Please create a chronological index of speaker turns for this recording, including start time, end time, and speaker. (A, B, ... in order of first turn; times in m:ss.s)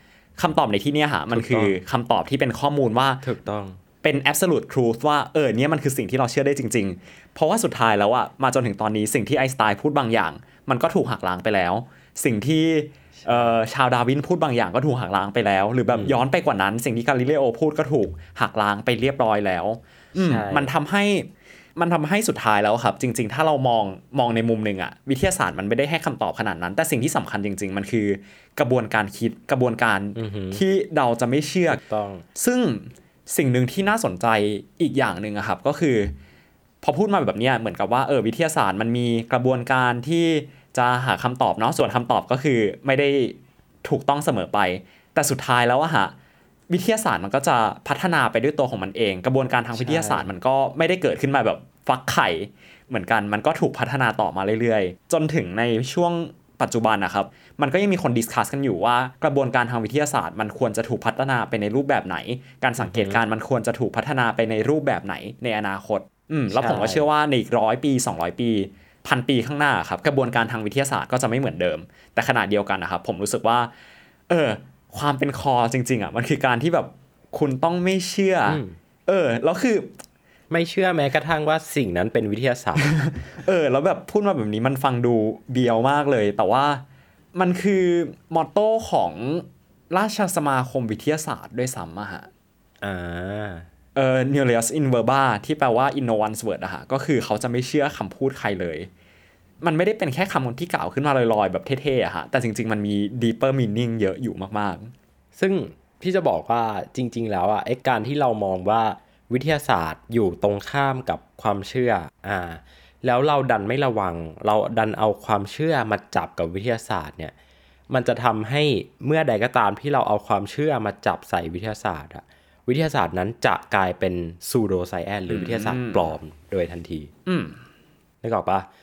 0:00.4-0:03.2 A
0:01.3-0:01.8 B
0:03.2-0:03.8 B
0:04.0-0:31.8 A
0:13.2-0:13.5 B
0:15.9-0:16.2 B
0:20.2-0:20.7 B
0:30.1-0:30.6 B
0:31.7-0:32.2 B
0:32.3-0:36.1 A
0:36.8-0:46.1 A
0:46.7-1:13.7 A
0:49.7-0:50.3 B
1:02.8-1:03.2 B
1:06.5-1:07.0 B
1:14.3-1:19.9 A
1:18.5-1:18.8 B
1:20.5-1:22.9 B
1:22.8-1:26.8 A
1:27.3-1:32.3 A
1:32.8-1:33.7 B
1:33.9-1:38.9 A
1:39.6-1:44.9 A
1:45.4-1:57.3 B
1:57.9-2:07.1 B
2:05.3-2:06.1 A
2:07.2-2:07.6 A
2:08.2-2:08.7 B